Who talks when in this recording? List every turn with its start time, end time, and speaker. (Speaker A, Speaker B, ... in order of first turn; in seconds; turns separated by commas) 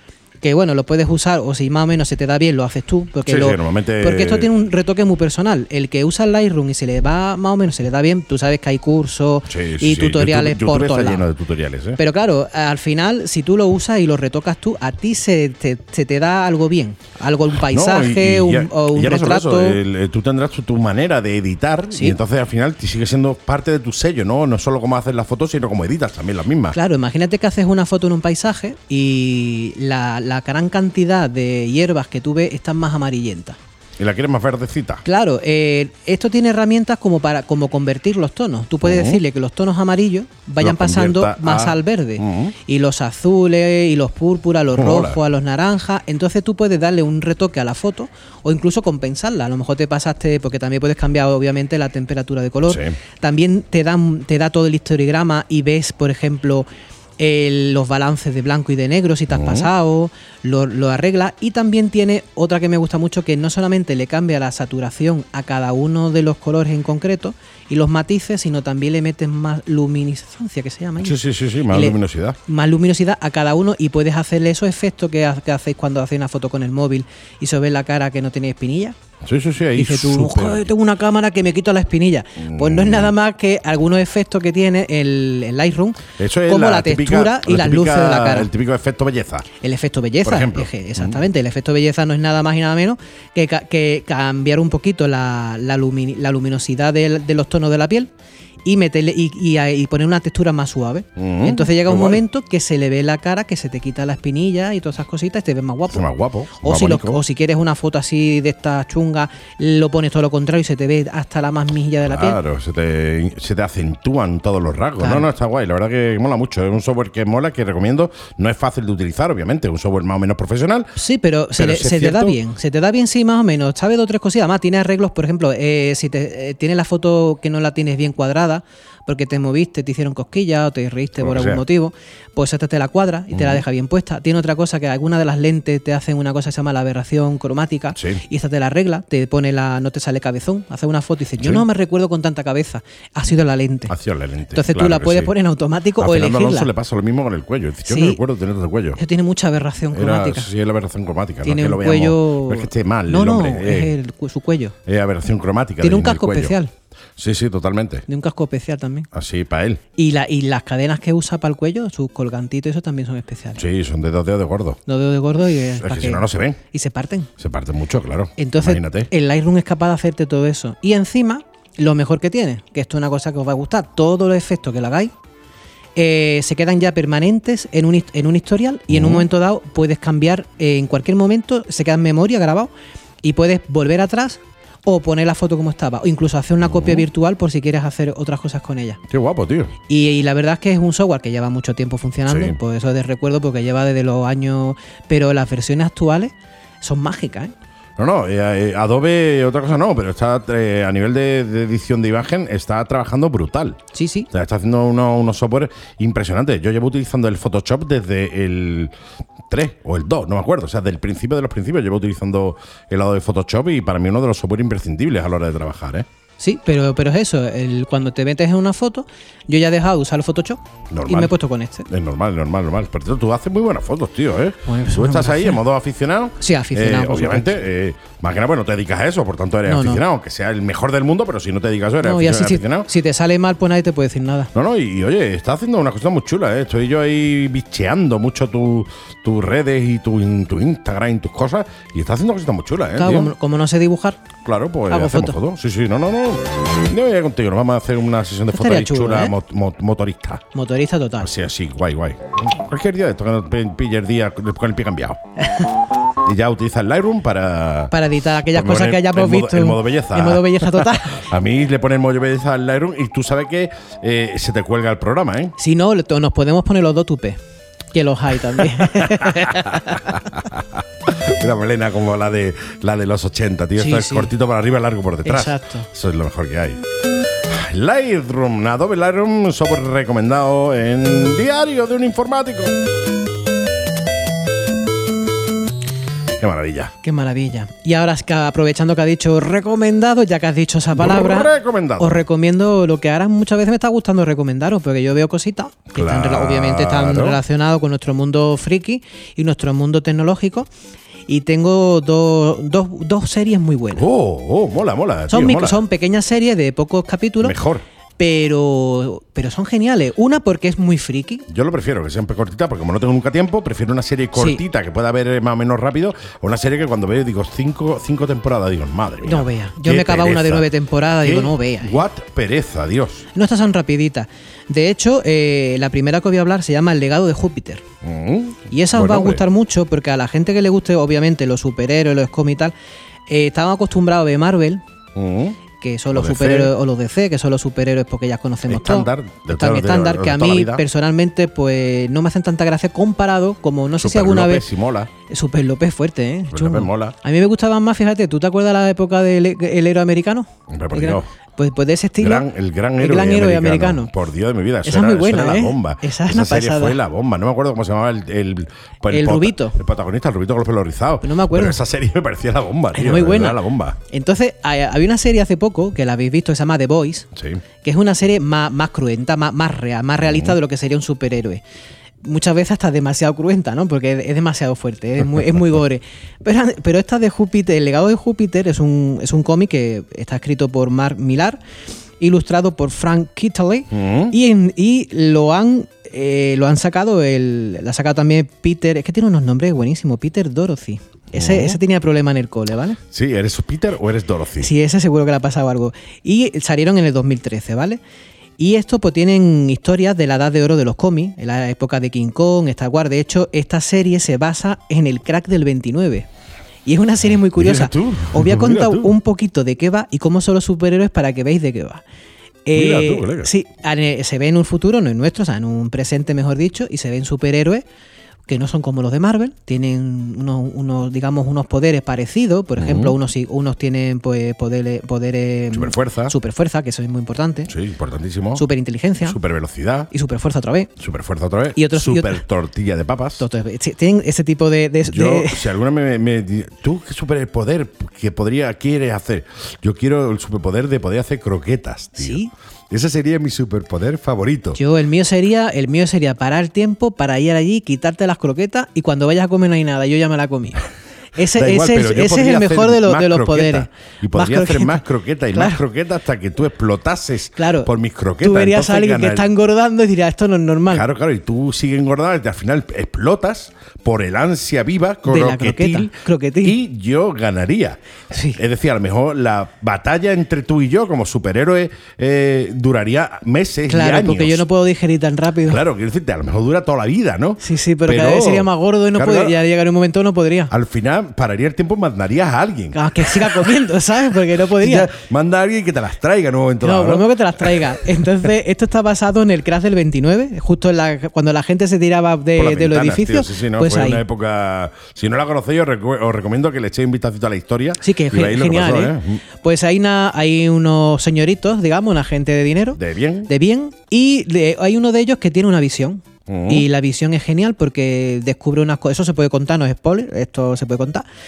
Speaker A: 0.4-11.2, Speaker B: 3.2-4.5, Speaker B: 9.5-12.0, Speaker A: 12.0-19.8, Speaker B: 17.7-26.8, Speaker A: 21.9-22.2, Speaker A: 26.7-33.6, Speaker B: 34.0-35.0, Speaker A: 35.0-56.7, Speaker B: 38.8-39.2, Speaker B: 40.6-42.5, Speaker B: 44.8-45.2, Speaker B: 52.7-52.9, Speaker A: 57.2-79.0, Speaker B: 59.3-59.7, Speaker B: 71.0-72.4, Speaker B: 79.2-80.7, Speaker A: 79.8-88.5, Speaker B: 82.4-83.1, Speaker B: 86.2-89.5, Speaker A: 89.6-98.1, Speaker B: 90.2-91.2, Speaker A: 98.7-106.1, Speaker B: 101.2-102.2, Speaker B: 105.9-107.2, Speaker A: 106.6-112.4, Speaker B: 112.0-121.0, Speaker A: 115.0-115.3, Speaker A: 121.0-143.9, Speaker B: 121.6-122.4, Speaker B: 131.2-131.6, Speaker B: 133.3-133.6, Speaker B: 137.9-138.2, Speaker B: 141.4-141.7, Speaker B: 143.9-145.3, Speaker A: 144.5-146.7, Speaker B: 146.0-149.0, Speaker A: 147.9-148.2, Speaker A: 149.0-150.5, Speaker B: 149.9-153.9, Speaker A: 151.4-154.8, Speaker B: 154.9-156.6, Speaker A: 155.8-156.7, Speaker B: 157.2-158.1, Speaker A: 158.1-159.1, Speaker B: 159.1-159.8, Speaker A: 160.0-163.6, Speaker B: 163.6-164.8, Speaker A: 164.9-167.3, Speaker B: 165.8-166.6, Speaker B: 167.4-169.1, Speaker A: 168.4-175.1, Speaker A: 176.0-182.7, Speaker B: 178.9-179.2, Speaker A: 183.2-189.0, Speaker B: 186.6-187.0, Speaker B: 189.1-189.7, Speaker A: 189.9-197.5, Speaker B: 192.3-192.6, Speaker B: 198.0-208.9, Speaker A: 203.9-204.3, Speaker B: 209.5-216.1, Speaker A: 216.4-221.9, Speaker B: 220.9-221.3, Speaker B: 221.9-232.9, Speaker A: 224.7-225.6, Speaker A: 226.4-227.5, Speaker A: 229.7-230.0, Speaker A: 232.0-234.5, Speaker B: 234.5-243.3, Speaker A: 243.0-244.2, Speaker B: 244.4-250.4, Speaker A: 244.9-245.4, Speaker A: 248.5-249.3, Speaker A: 250.5-251.3, Speaker B: 251.2-255.2, Speaker B: 256.2-257.9, Speaker A: 257.9-261.3, Speaker B: 258.5-265.6, Speaker A: 265.6-267.4, Speaker A: 267.9-270.2, Speaker B: 268.6-276.8, Speaker A: 273.8-274.3, Speaker A: 275.2-275.9, Speaker B: 277.4-282.8, Speaker B: 286.4-286.9, Speaker A: 287.0-300.7, Speaker B: 290.9-292.2, Speaker B: 295.9-297.4, Speaker A: 301.3-304.1, Speaker B: 303.9-305.8, Speaker A: 305.3-307.6, Speaker B: 307.4-307.8, Speaker A: 308.2-311.5, Speaker B: 311.5-320.7, Speaker A: 314.4-314.6, Speaker A: 319.2-322.0, Speaker B: 321.2-323.3, Speaker A: 323.3-327.8, Speaker B: 328.0-329.4, Speaker A: 328.7-332.7, Speaker A: 333.3-334.8, Speaker B: 335.1-335.6, Speaker A: 335.8-344.7, Speaker B: 336.1-336.7, Speaker B: 338.7-340.9, Speaker B: 344.0-345.1, Speaker A: 345.3-354.1, Speaker B: 346.5-347.2, Speaker B: 350.7-351.3, Speaker B: 352.2-364.0, Speaker A: 354.9-357.0, Speaker A: 359.1-359.8, Speaker A: 361.2-361.8, Speaker A: 362.9-367.3, Speaker B: 367.4-367.6, Speaker A: 367.8-371.6, Speaker B: 370.2-370.6, Speaker A: 372.2-381.6, Speaker A: 382.2-393.0, Speaker B: 383.9-384.4, Speaker B: 391.3-391.8, Speaker B: 393.1-394.7, Speaker A: 394.6-398.0, Speaker A: 398.6-406.3, Speaker A: 406.9-412.0, Speaker B: 407.6-409.1, Speaker A: 412.6-417.8, Speaker B: 412.7-413.5, Speaker A: 418.5-427.7, Speaker B: 422.8-423.1, Speaker B: 425.7-426.4, Speaker B: 427.7-428.6, Speaker A: 428.6-429.4, Speaker B: 429.2-430.1, Speaker A: 430.1-430.9, Speaker B: 431.0-433.4, Speaker A: 431.8-432.4, Speaker A: 433.4-435.6, Speaker B: 435.1-444.8, Speaker A: 442.2-442.5, Speaker A: 444.8-455.8, Speaker B: 451.5-459.5, Speaker A: 457.6-457.9, Speaker A: 458.4-461.1, Speaker B: 460.9-468.0, Speaker A: 465.3-466.8, Speaker A: 468.3-468.6, Speaker B: 468.6-474.6, Speaker A: 473.9-475.8, Speaker B: 475.6-479.6, Speaker A: 477.6-480.7, Speaker B: 480.7-483.6, Speaker A: 482.9-485.1, Speaker B: 484.8-487.9, Speaker A: 486.8-494.2, Speaker B: 492.6-499.4, Speaker A: 498.0-511.3, Speaker B: 502.9-503.5, Speaker B: 506.5-506.9